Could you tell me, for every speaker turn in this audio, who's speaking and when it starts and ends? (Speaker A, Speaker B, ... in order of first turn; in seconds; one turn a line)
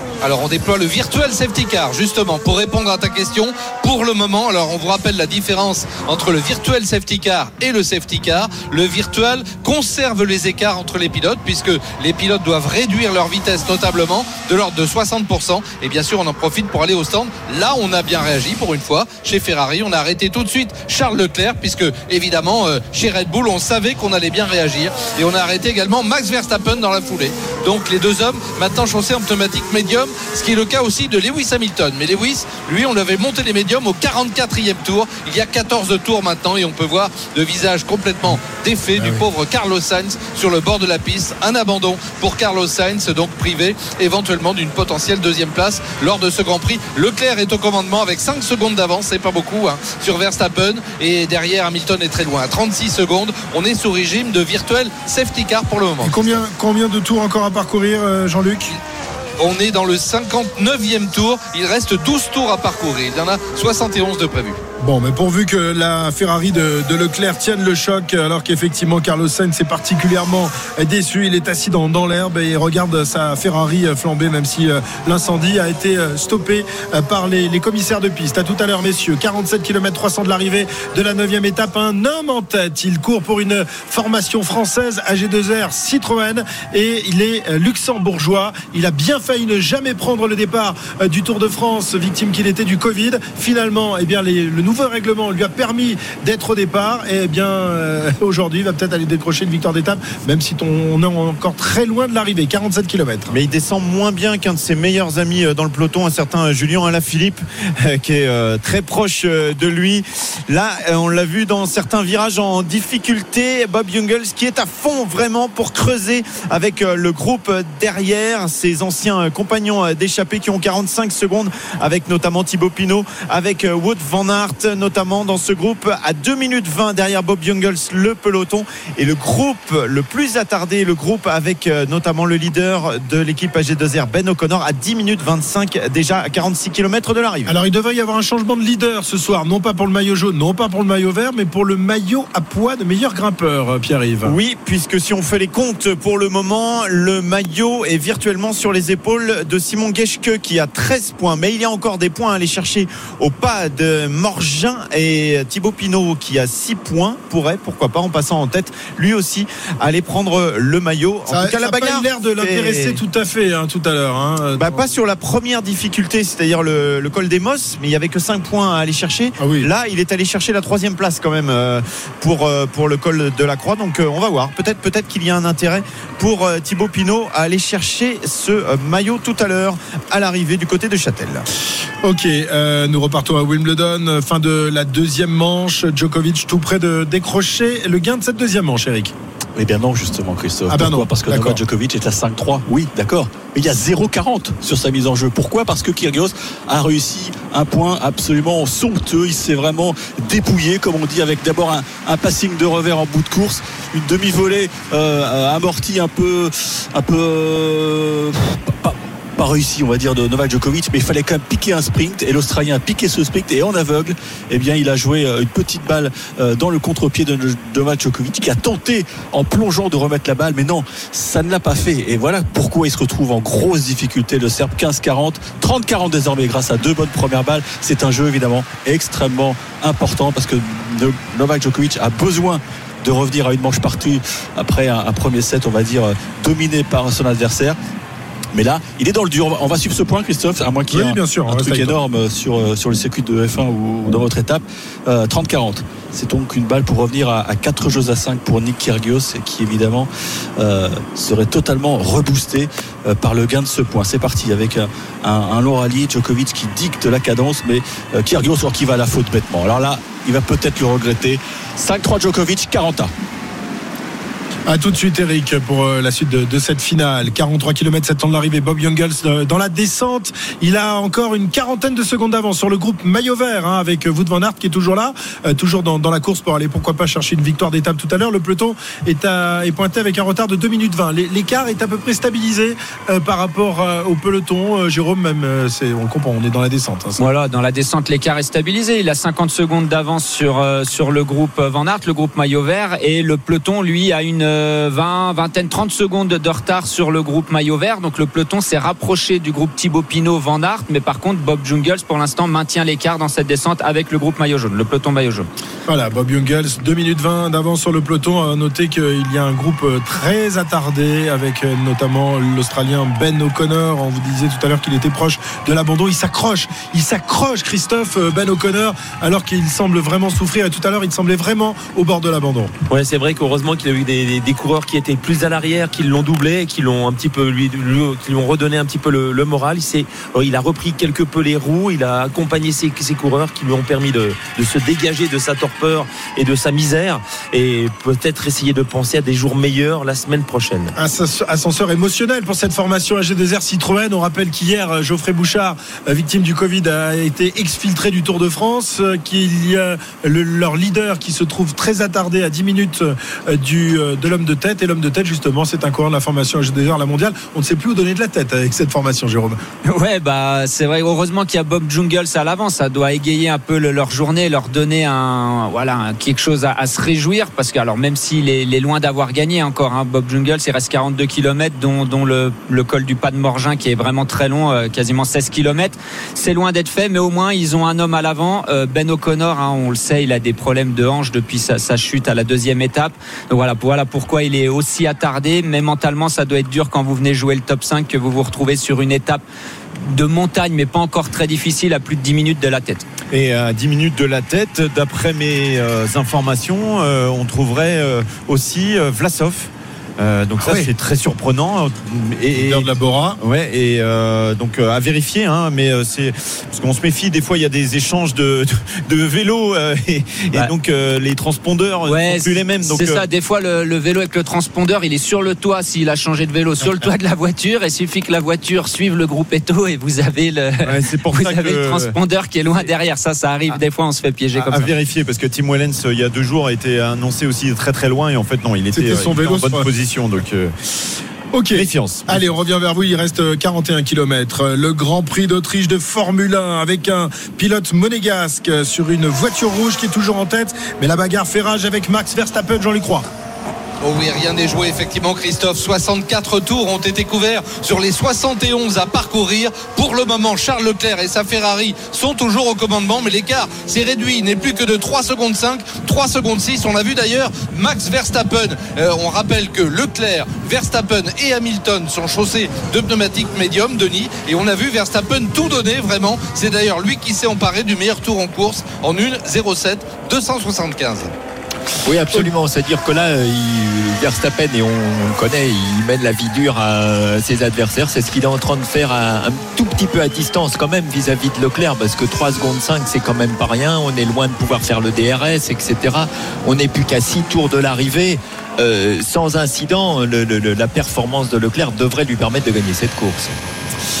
Speaker A: 0.2-56.4
Speaker B: 39.0-39.2
Speaker B: 56.0-58.7
Speaker A: 59.4-64.6
Speaker B: 64.8-103.3
Speaker C: 103.3-137.6
Speaker B: 137.5-144.4
Speaker C: 144.2-163.0
Speaker B: 161.3-164.8
Speaker C: 164.6-181.4
Speaker B: 169.4-169.7
Speaker B: 182.0-189.1
Speaker D: 189.6-237.8
Speaker B: 190.7-191.6
Speaker D: 238.5-263.1
Speaker B: 240.9-241.9
Speaker B: 264.7-287.2
Speaker E: 287.2-305.5
Speaker B: 305.9-322.7
Speaker F: 322.9-340.9
Speaker B: 340.9-359.6
Speaker E: 359.8-389.4
Speaker E: 390.0-393.0
Speaker C: 393.3-402.9
Speaker B: 400.6-400.9
Speaker B: 402.5-403.4
Speaker C: 403.4-413.2
Speaker E: 412.1-424.9
Speaker C: 420.8-422.1
Speaker C: 424.6-430.7
Speaker B: 428.9-429.9
Speaker B: 431.5-443.3
Speaker C: 431.7-432.4
Speaker A: 444.0-471.3
Speaker G: 472.0-493.5